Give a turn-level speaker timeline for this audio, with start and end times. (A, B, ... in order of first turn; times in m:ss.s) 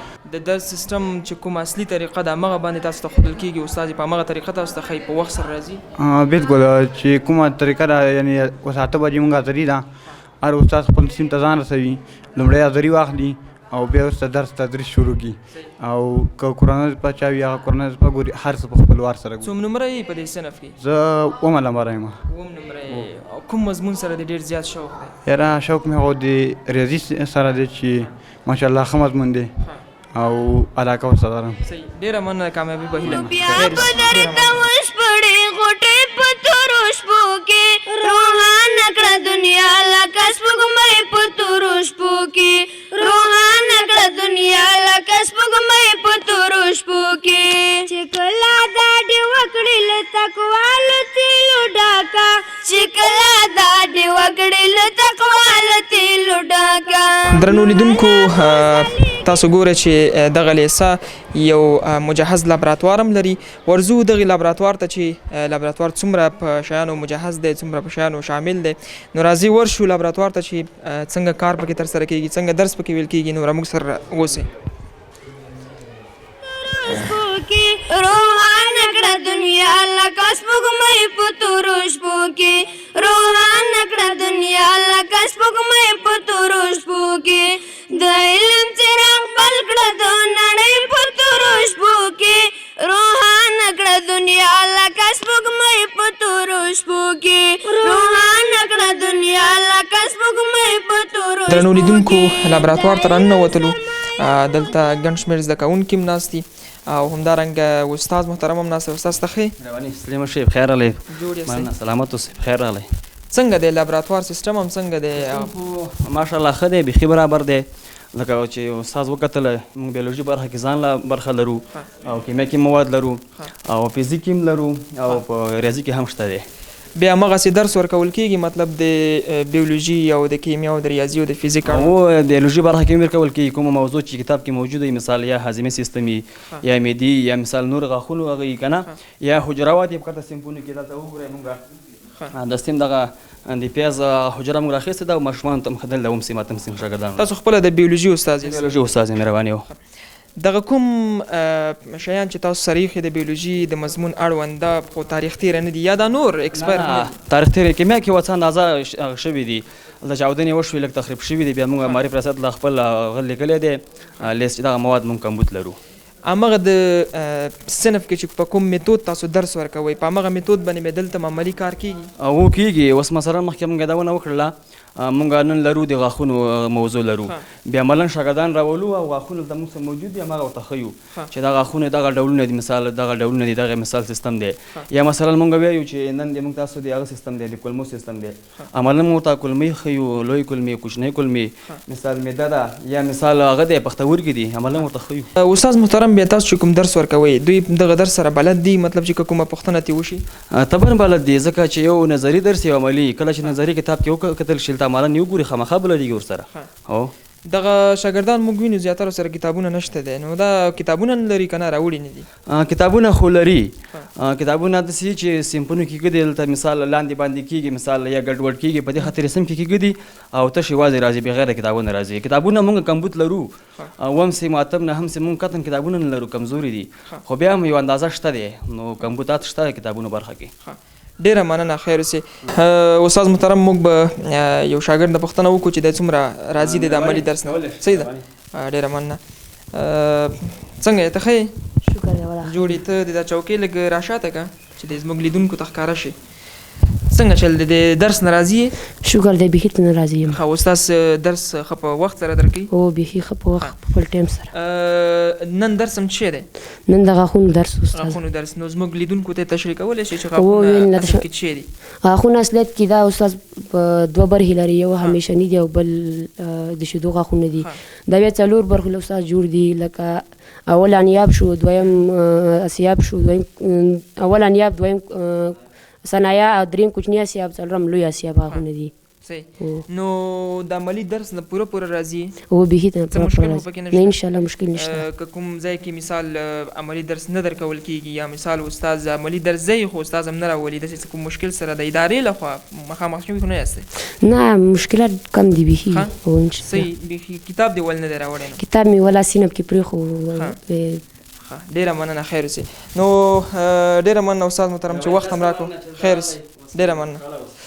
0:00.3-0:05.8 A
0:06.0-0:09.8 B
0:10.4-0:19.5 B
0:19.4-0:20.7 A
0:20.8-0:22.2 B
0:22.3-0:25.1 A
0:25.2-0:29.5 B
0:30.1-0:31.6 B
0:31.6-0:34.6 A
0:33.0-0:59.4 C
0:33.0-0:34.0 B
0:57.3-1:14.5 A
1:16.4-1:44.5 C
1:41.5-1:49.5 A
1:49.6-1:52.8 D
1:51.1-1:51.7 A
1:53.3-1:55.5 A
1:55.2-2:06.4 D
2:07.0-2:11.9 A
2:11.6-2:21.6 D
2:22.3-2:27.3 D
2:27.2-2:28.8 A
2:28.4-2:29.7 D
2:30.4-2:37.1 A
2:36.5-2:45.8 D
2:46.2-2:52.1 A
2:52.2-3:15.3 D
3:15.4-3:20.2 A
3:20.5-3:27.1 D
3:27.5-3:32.3 A
3:32.5-3:50.5 D
3:50.6-3:59.2 A
3:56.6-3:58.2 D
3:59.7-4:01.7 A
4:01.8-4:02.8 E
4:02.4-4:06.1 A
4:07.1-4:08.8 A
4:09.0-4:10.4 E
4:10.3-4:12.7 A
4:12.7-4:14.5 E
4:14.5-4:16.5 A
4:16.9-4:18.2 E
4:17.9-4:21.7 A
4:20.3-4:21.2 E
4:22.0-4:38.9 E
4:39.2-4:42.4 A
4:39.6-4:39.8 E
4:42.5-4:45.0 E
4:43.1-4:44.2 A
4:44.7-4:53.9 A
4:54.2-4:56.9 E
4:55.9-4:58.6 A
4:58.6-5:01.0 E
5:01.4-5:07.2 A
5:04.9-5:07.5 D